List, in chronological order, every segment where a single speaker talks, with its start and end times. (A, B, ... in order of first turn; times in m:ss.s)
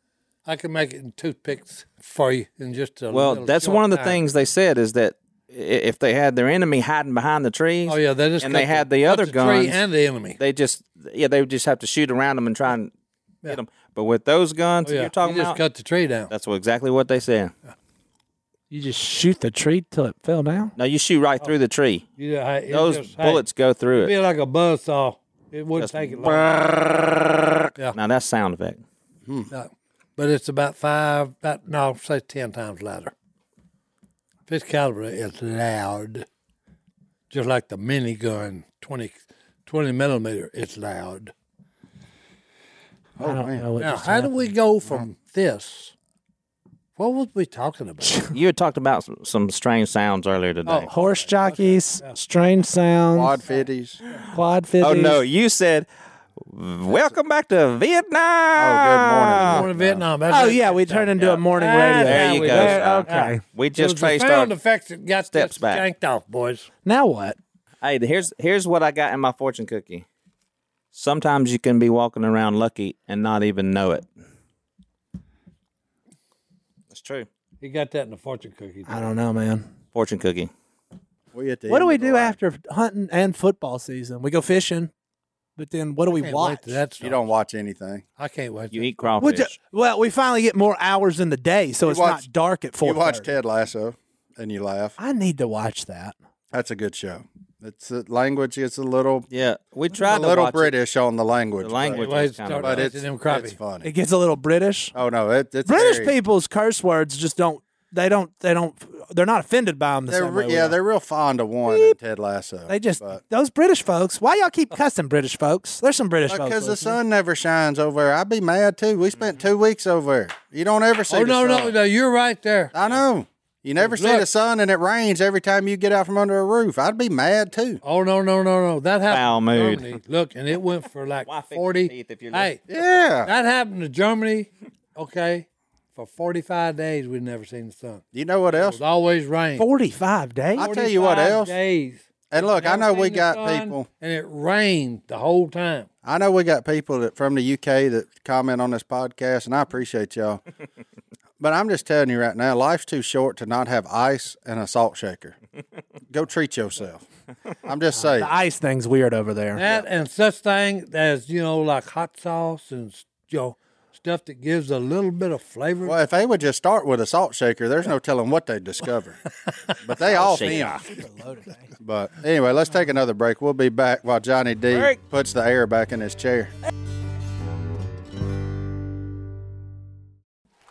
0:00.4-0:04.2 A
0:03.1-0:09.8 B
0:07.9-0:10.4 A
0:10.4-0:12.9 B
0:13.5-0:15.6 B
0:14.8-0:16.3 A
0:16.3-0:17.5 B
0:18.7-0:20.7 C
0:20.8-0:22.0 B
0:22.2-0:23.4 A
0:22.7-0:24.1 B
0:24.0-0:26.5 A
0:25.8-0:28.8 B
0:29.2-0:29.5 D
0:29.5-0:33.1 A
0:34.5-0:36.2 A
0:37.3-0:41.3 A
0:43.2-0:43.7 D
0:43.2-0:44.4 C
0:43.8-0:45.9 A
0:47.0-0:48.2 A
0:48.0-0:48.3 C
0:48.3-0:50.9 B
0:50.6-0:52.2 A
0:50.9-0:53.4 C
0:53.1-0:54.0 D
0:54.3-0:55.2 C
0:54.8-0:55.9 B
0:56.4-0:59.6 B
0:58.5-1:00.0 D
0:59.4-1:06.7 A
1:00.3-1:03.4 C
1:01.2-1:01.4 B
1:02.0-1:04.5 B
1:05.3-1:05.8 B
1:06.8-1:07.4 C
1:07.8-1:10.0 B
1:10.9-1:14.0 B
1:16.9-1:17.3 B
1:17.6-1:19.1 A
1:18.9-1:19.7 C
1:19.9-1:20.5 B
1:21.3-1:22.4 D
1:21.7-1:24.9 C
1:25.6-1:26.8 C
1:26.1-1:27.2 A
1:27.0-1:28.0 D
1:28.2-1:29.3 A
1:28.7-1:29.5 B
1:29.2-1:33.3 C
1:31.8-1:32.2 D
1:32.8-1:35.0 D
1:35.0-1:36.1 C
1:36.5-1:39.3 D
1:39.3-1:40.7 B
1:39.9-1:42.1 D
1:41.6-1:42.9 B
1:41.9-1:43.6 A
1:42.6-1:43.9 D
1:43.8-1:44.9 C
1:44.9-1:46.1 D
1:45.6-1:50.8 C
1:50.1-1:53.2 D
1:51.7-1:52.0 C
1:52.7-1:57.0 C
1:56.3-2:01.8 D
2:01.1-2:02.7 A
2:02.7-2:07.8 D
2:03.8-2:04.3 A
2:07.8-2:12.6 A
2:09.1-2:09.9 B
2:11.2-2:12.5 B
2:12.7-2:13.3 D
2:13.2-2:18.0 A
2:18.1-2:18.8 D
2:18.5-2:19.6 A
2:19.6-2:20.7 C
2:20.6-2:21.5 D
2:20.6-2:25.9 A
2:22.3-2:23.9 D
2:26.0-2:30.4 D
2:31.4-2:35.4 D
2:36.1-2:37.0 D
2:37.6-2:38.3 D
2:38.0-2:39.6 C
2:39.5-2:46.0 A
2:39.6-2:39.8 D
2:45.8-2:49.2 D
2:49.8-2:50.8 D
2:50.0-2:50.7 B
2:50.1-2:51.7 C
2:51.8-2:56.5 D
2:54.7-2:55.0 B